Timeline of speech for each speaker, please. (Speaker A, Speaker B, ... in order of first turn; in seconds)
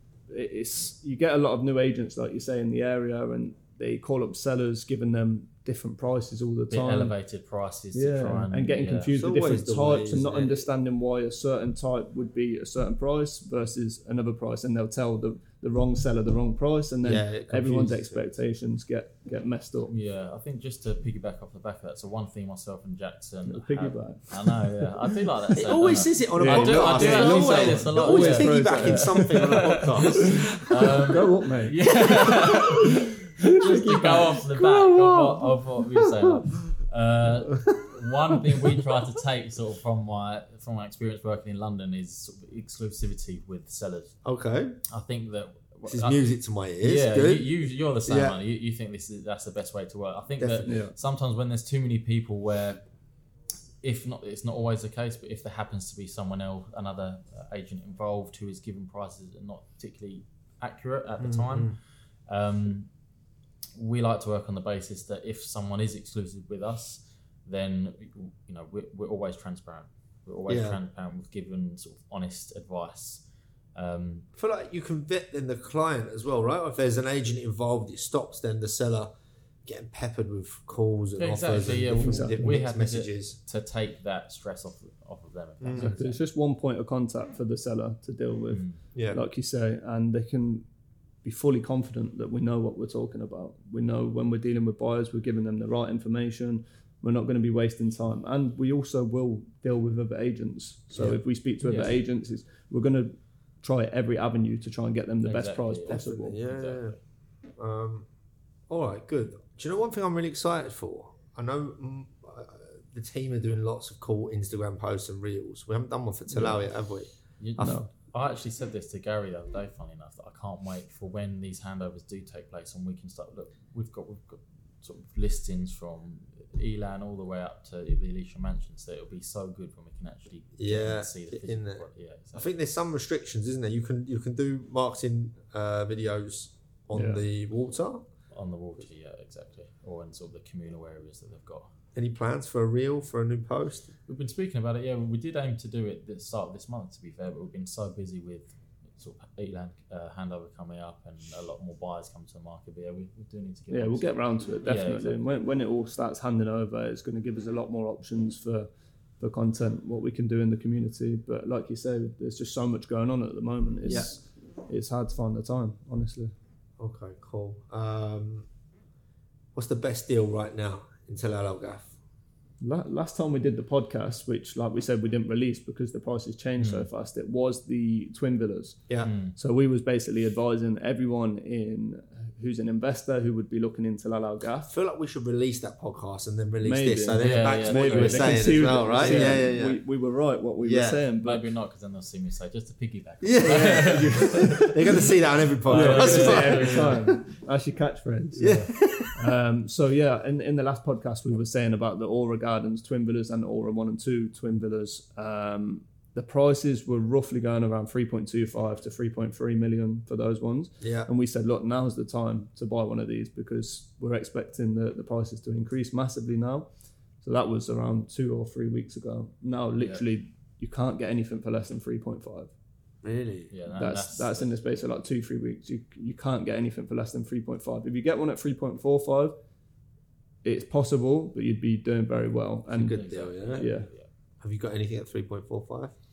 Speaker A: 0.3-7.2, 7.9-19.9, 23.5-24.9, 26.4-32.7, 33.4-34.4, 50.5-51.0, 81.9-82.7, 85.8-90.7, 91.2-106.4, 116.3-116.6, 117.6-117.9, 136.9-137.2, 153.7-158.7, 159.2-166.3, 172.6-184.7, 186.6-191.5, 193.4-195.1, 195.7-216.7, 217.2-222.5, 223.7-229.3, 230.4-233.9
Speaker B: 6.7-9.1, 19.8-44.2, 44.9-52.8, 53.8-61.8, 62.3-62.9, 63.8-74.3, 81.2-86.2, 88.5-88.8, 101.6-102.0, 105.2-107.0, 117.4-132.6, 138.3-141.7, 144.1-155.2, 176.6-176.9, 179.0-179.3, 187.1-189.5, 191.2-197.2, 198.4-198.7, 223.5-224.5, 232.7-234.1
Speaker C: 9.1-10.7, 17.0-18.3, 25.5-30.6, 34.5-35.5, 36.0-36.4, 38.6-38.9, 44.2-44.8, 45.9-47.5, 48.1-48.4, 50.4-50.7, 61.2-61.8, 70.5-70.8, 74.3-79.1, 79.7-83.4, 85.6-85.9, 89.0-89.2, 105.9-107.0, 107.6-108.1, 108.7-117.1, 130.6-138.0, 141.9-143.9, 163.8-164.1, 166.8-168.5, 169.6-171.9, 184.7-189.8, 190.6-191.1, 193.2-197.0, 198.4-199.2, 210.8-211.1, 223.0-223.5, 232.7-233.7, 234.4-235.9